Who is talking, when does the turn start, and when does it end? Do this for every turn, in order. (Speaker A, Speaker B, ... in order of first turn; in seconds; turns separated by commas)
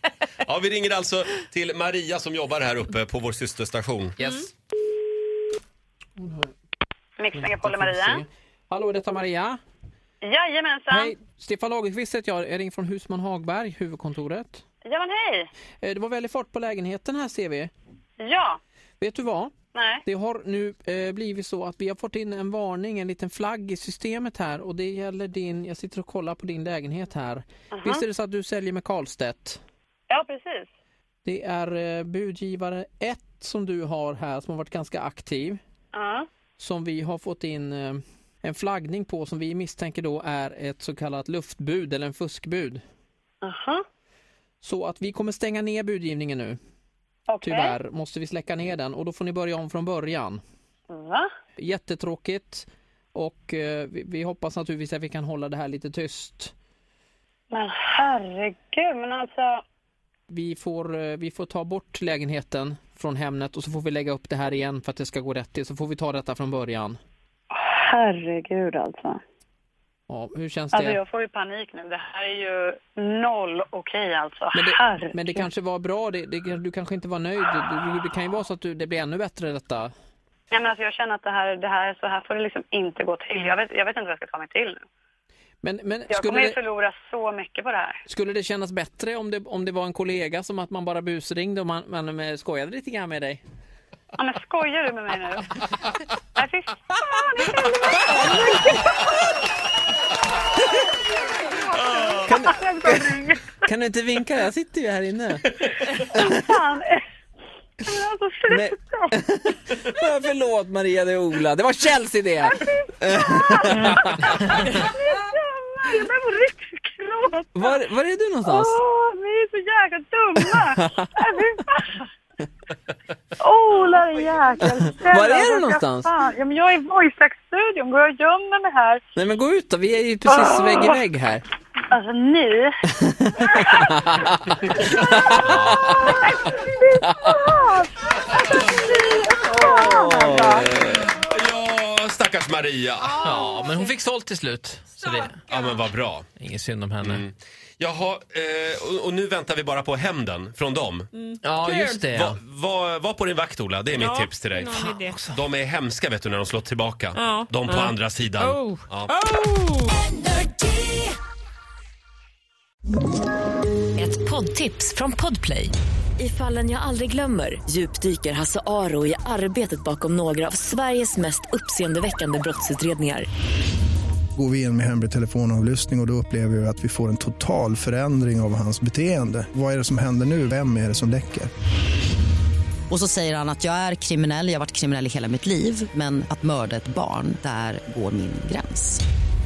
Speaker A: 0.4-4.2, Speaker B: 4.2-4.5, Speaker C: 4.2-4.5, Speaker B: 6.2-6.5, Speaker D: 7.2-8.2, Speaker B: 7.3-9.6, Speaker D: 10.2-11.1, Speaker B: 10.9-14.6, Speaker D: 14.9-15.5, Speaker B: 15.8-17.7, Speaker D: 18.2-18.6, Speaker B: 19.0-29.6, Speaker D: 19.7-20.0, Speaker D: 27.7-28.0, Speaker D: 30.1-30.7, Speaker B: 31.2-35.6, Speaker D: 35.9-36.3, Speaker B: 36.6-42.8, Speaker D: 43.4-43.8, Speaker B: 44.6-46.6, Speaker D: 47.3-47.8, Speaker B: 47.4-50.4, Speaker D: 50.9-51.2, Speaker B: 51.6-56.5, Speaker D: 57.5-59.6, Speaker B: 60.3-67.0, Speaker D: 67.5-69.2, Speaker B: 70.1-71.0, Speaker D: 70.7-75.5, Speaker B: 74.5-79.9, Speaker D: 80.5-84.8, Speaker B: 85.6-86.6, Speaker D: 86.1-88.0, Speaker B: 88.0-93.4, Speaker D: 94.2-95.5, Speaker D: 96.3-99.1, Speaker B: 98.1-98.4, Speaker D: 101.5-103.6, Speaker B: 102.2-103.0, Speaker B: 103.6-106.3, Speaker D: 105.9-107.0, Speaker D: 107.8-109.1, Speaker B: 108.5-114.7, Speaker D: 112.5-117.8, Speaker B: 117.5-118.8, Speaker D: 118.4-122.1, Speaker B: 120.8-121.1, Speaker D: 123.4-129.0, Speaker B: 125.0-126.1, Speaker B: 129.2-131.4, Speaker D: 130.3-130.9, Speaker D: 131.9-132.7, Speaker B: 133.0-136.2, Speaker D: 135.8-140.6, Speaker B: 137.1-137.4, Speaker B: 139.7-141.1, Speaker A: 140.5-143.2, Speaker C: 143.0-143.9, Speaker B: 143.2-145.4, Speaker C: 145.0-145.8, Speaker A: 145.4-146.2, Speaker B: 146.4-147.2, Speaker A: 147.0-151.1, Speaker C: 151.1-151.8, Speaker B: 151.4-152.4, Speaker A: 151.6-159.1, Speaker C: 153.9-155.2, Speaker B: 155.1-155.4, Speaker C: 157.1-160.0, Speaker E: 164.0-173.3, Speaker F: 174.4-181.5, Speaker G: 182.9-189.0